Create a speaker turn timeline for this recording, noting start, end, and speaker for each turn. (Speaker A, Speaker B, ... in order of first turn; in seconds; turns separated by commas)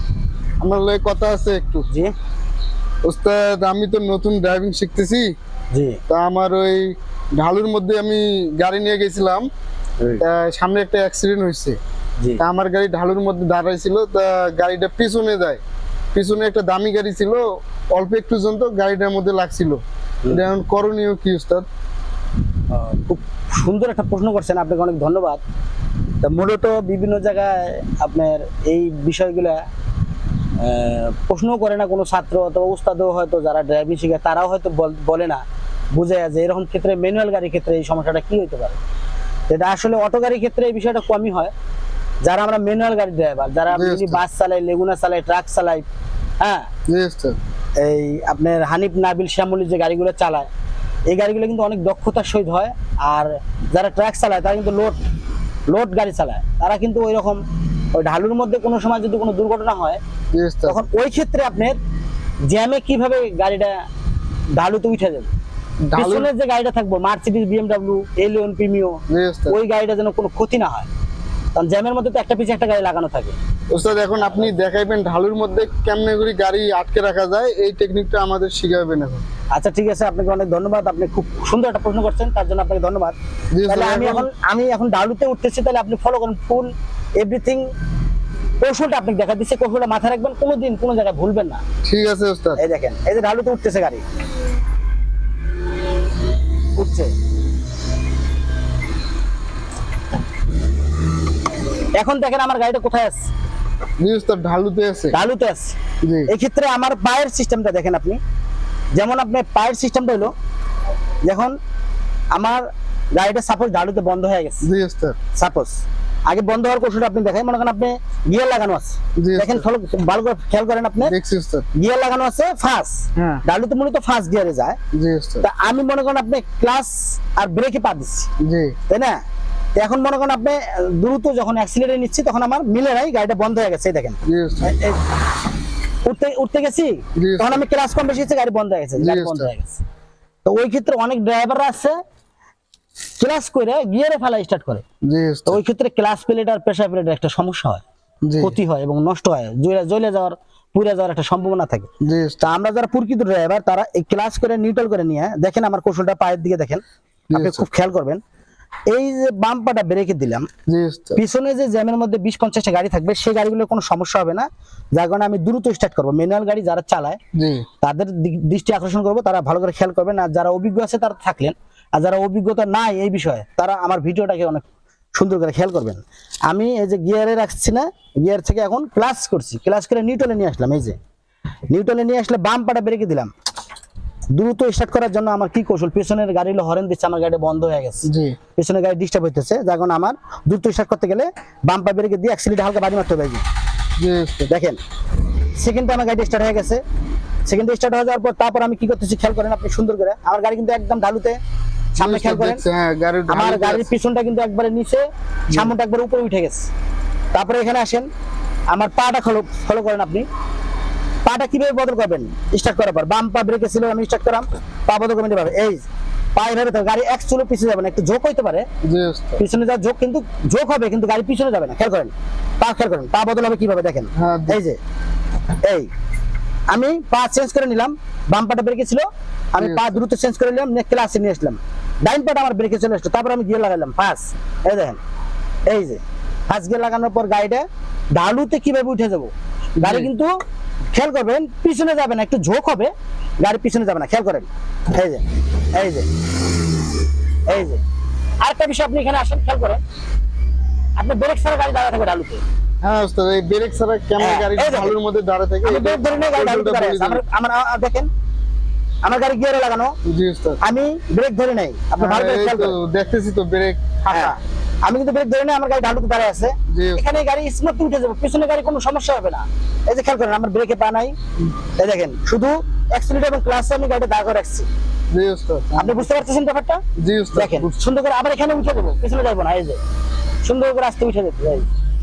Speaker A: 0.6-1.9, Speaker A: 3.0-5.3, Speaker B: 5.7-6.0, Speaker A: 6.1-9.5, Speaker A: 10.2-11.8, Speaker A: 12.4-15.6, Speaker A: 16.1-21.7, Speaker B: 22.7-25.4, Speaker B: 26.2-29.6, Speaker B: 30.6-35.4, Speaker B: 35.9-38.8, Speaker B: 39.5-41.5, Speaker B: 42.2-45.9, Speaker A: 43.7-44.2, Speaker B: 46.4-46.7, Speaker A: 46.9-47.4, Speaker B: 47.8-50.5, Speaker B: 51.1-55.0, Speaker B: 55.7-57.4, Speaker B: 57.9-60.0, Speaker A: 60.3-60.8, Speaker B: 60.7-61.8, Speaker B: 62.5-63.8, Speaker B: 64.5-65.3, Speaker A: 65.9-66.3, Speaker B: 66.0-70.9, Speaker A: 69.1-69.6, Speaker B: 71.6-73.4, Speaker A: 73.7-79.2, Speaker B: 79.5-83.2, Speaker A: 83.5-84.3, Speaker B: 83.7-87.7, Speaker B: 88.6-91.6, Speaker A: 91.8-92.6, Speaker B: 92.6-94.0, Speaker B: 96.8-97.1, Speaker B: 102.0-103.3, Speaker A: 104.0-105.2, Speaker B: 105.1-105.8, Speaker A: 106.0-106.3, Speaker B: 106.3-108.2, Speaker B: 108.9-110.3, Speaker B: 111.2-111.6, Speaker B: 112.3-114.7, Speaker A: 114.6-115.2, Speaker B: 115.3-121.1, Speaker A: 119.2-119.6, Speaker A: 121.0-121.7, Speaker B: 121.8-124.8, Speaker A: 123.2-123.4, Speaker A: 124.9-125.5, Speaker B: 125.4-128.3, Speaker A: 128.4-128.8, Speaker B: 128.9-129.2, Speaker B: 129.8-135.0, Speaker A: 134.2-134.8, Speaker B: 136.1-139.8, Speaker A: 137.2-137.6, Speaker A: 139.0-139.5, Speaker B: 140.4-142.0, Speaker B: 143.2-144.8, Speaker A: 145.1-145.6, Speaker B: 145.5-147.8, Speaker A: 148.2-148.6, Speaker B: 148.4-151.9, Speaker A: 152.0-152.4, Speaker B: 152.4-156.8, Speaker A: 157.3-157.7, Speaker B: 157.3-158.2, Speaker B: 158.9-160.5, Speaker A: 160.7-161.2, Speaker B: 161.2-167.2, Speaker A: 167.3-167.7, Speaker B: 167.8-181.0, Speaker B: 181.7-183.3, Speaker B: 184.3-188.1, Speaker A: 188.1-188.4, Speaker B: 188.6-193.4, Speaker A: 194.0-194.5, Speaker B: 194.5-194.8, Speaker B: 195.6-196.8, Speaker B: 197.5-201.4, Speaker B: 201.9-202.6, Speaker A: 202.0-203.9, Speaker B: 203.3-206.7, Speaker B: 207.3-208.1, Speaker B: 208.7-210.3, Speaker B: 211.2-215.8, Speaker B: 216.4-218.7, Speaker A: 218.8-219.4, Speaker B: 219.4-224.8, Speaker A: 224.2-224.6, Speaker B: 225.6-225.9, Speaker B: 226.7-235.0, Speaker A: 229.6-230.0, Speaker B: 235.7-240.3, Speaker A: 239.8-240.1, Speaker B: 240.9-242.9, Speaker B: 243.4-245.2, Speaker B: 245.7-246.1, Speaker B: 247.5-247.8, Speaker B: 248.4-249.8, Speaker B: 251.0-252.4, Speaker A: 252.8-257.2, Speaker B: 254.2-254.9, Speaker B: 255.6-258.1, Speaker B: 259.0-259.9, Speaker A: 260.1-260.6, Speaker B: 260.6-262.8, Speaker A: 262.0-264.4, Speaker B: 264.1-271.1, Speaker A: 266.7-267.0, Speaker B: 271.8-274.7, Speaker A: 275.1-276.1, Speaker B: 275.8-276.8, Speaker A: 277.0-277.7, Speaker B: 277.4-279.8, Speaker B: 280.4-281.7